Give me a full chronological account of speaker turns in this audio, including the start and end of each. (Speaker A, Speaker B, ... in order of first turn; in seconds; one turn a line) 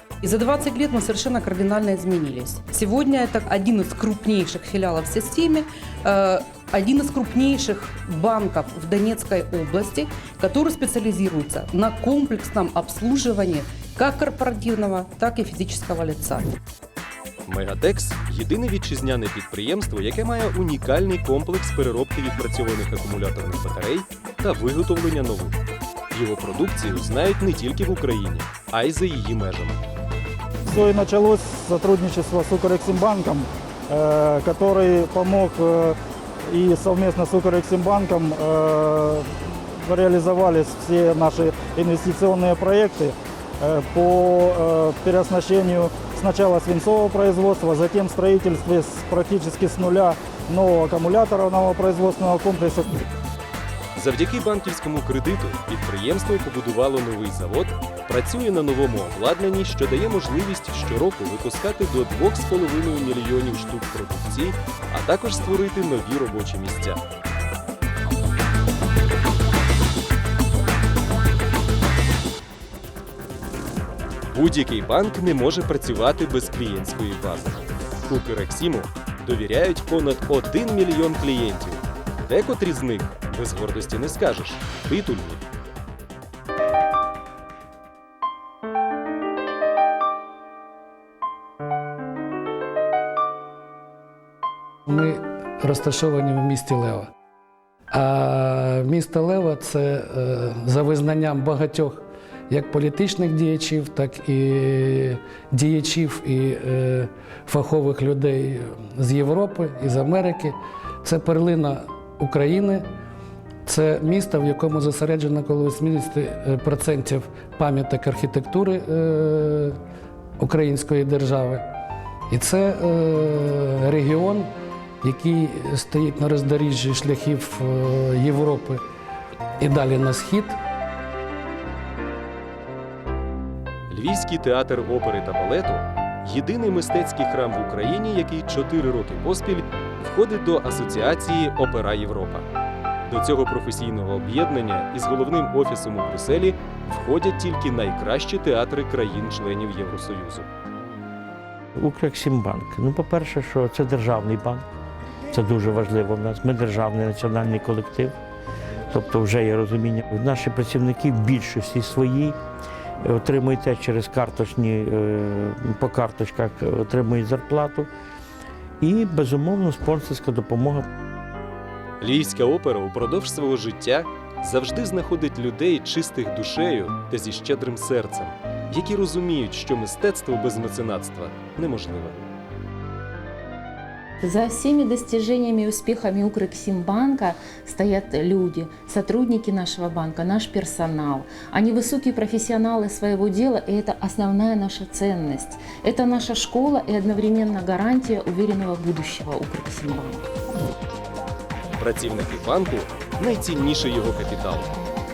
Speaker A: 0.2-16.5
Speaker B: 17.5-25.6
Speaker B: 26.1-29.8
Speaker C: 30.7-36.0
Speaker C: 36.5-39.3
Speaker C: 39.8-53.0
Speaker B: 54.0-67.0
Speaker B: 74.3-85.4
Speaker D: 94.9-97.1
Speaker D: 97.9-112.9
Speaker D: 113.7-119.8
Speaker D: 120.4-121.7
Speaker D: 122.3-124.5
Speaker D: 125.0-128.8
Speaker D: 129.6-130.6
Speaker B: 133.9-142.5
Speaker B: 143.1-150.5
Speaker E: 151.8-154.7
Speaker E: 155.3-158.2
Speaker E: 158.9-162.4
Speaker E: 163.0-167.9
Speaker E: 168.8-170.9
Speaker B: 172.0-182.2
Speaker F: 184.2-200.2
Speaker B: 201.8-204.7